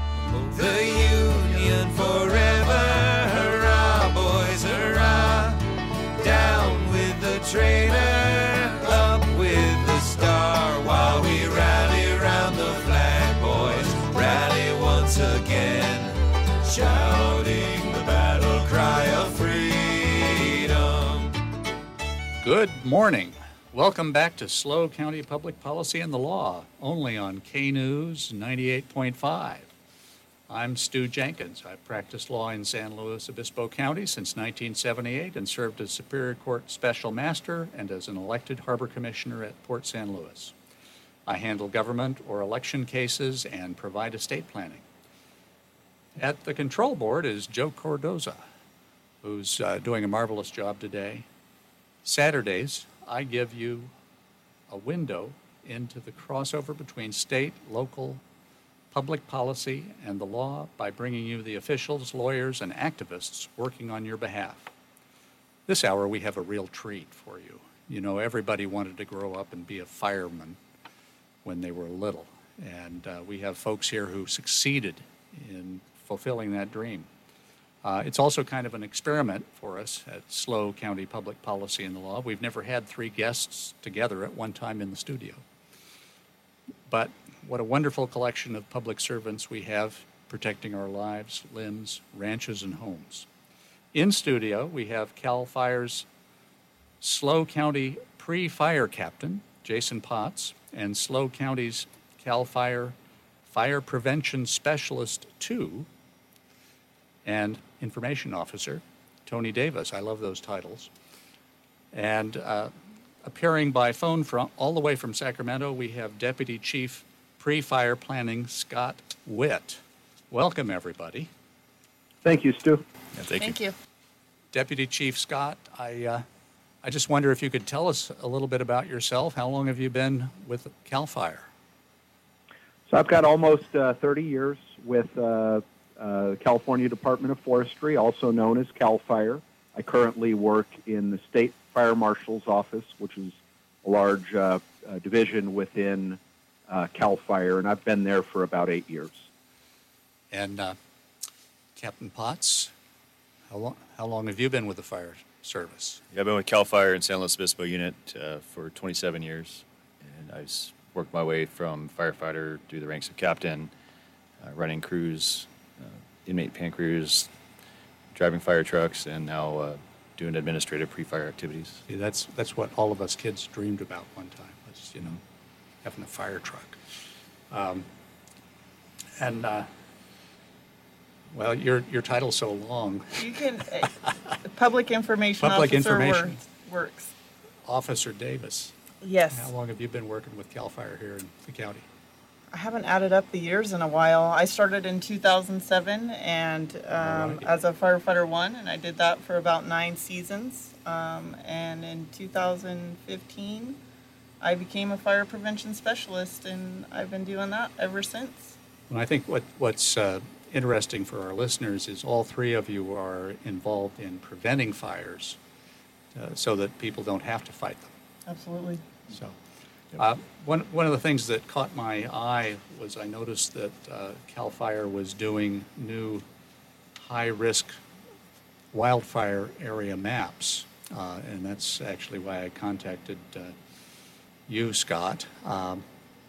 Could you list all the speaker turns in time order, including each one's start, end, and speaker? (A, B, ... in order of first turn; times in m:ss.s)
0:00.4-0:21.4 A
0:22.4-0:29.7 B
0:30.5-0:40.5 B
0:41.3-0:44.8 B
0:46.2-0:48.4 B
0:49.2-0:51.2 B
0:52.0-0:53.9 B
0:54.7-0:58.2 B
0:58.9-1:04.7 B
1:05.7-1:10.6 B
1:11.4-1:17.1 B
1:17.8-1:25.4 B
1:26.9-1:33.3 B
1:33.9-1:36.0 B
1:37.0-1:42.9 B
1:43.5-1:45.9 B
1:47.2-1:50.9 B
1:51.9-2:01.3 B
2:02.2-2:02.8 C
2:03.1-2:03.5 D
2:03.4-2:03.7 E
2:04.5-2:06.2 B
2:06.8-2:11.5 B
2:12.9-2:29.3 C
2:30.3-2:30.8 B
2:31.8-2:32.7 B
2:33.5-2:36.0 B
2:36.1-2:43.7 D
2:44.4-2:47.3 D
2:48.1-2:51.8 D
2:51.9-2:55.2 B
2:55.8-2:56.8 B
2:57.5-2:57.9 B
2:59.2-2:59.7 B
3:01.3-3:04.1 B
3:03.2-3:07.1 E
3:05.4-3:06.4 B
3:07.6-3:08.7 B
3:09.0-3:09.5 E
3:09.3-3:11.8 B
3:12.5-3:23.8 E
3:17.0-3:17.5 B
3:24.4-3:28.5 E
3:28.9-3:35.4 B
3:36.1-3:37.9 B
3:38.3-3:38.8 E
3:39.1-3:39.4 B
3:39.9-3:46.2 B
3:47.0-3:47.8 B
3:48.7-3:53.5 B
3:54.5-3:55.8 B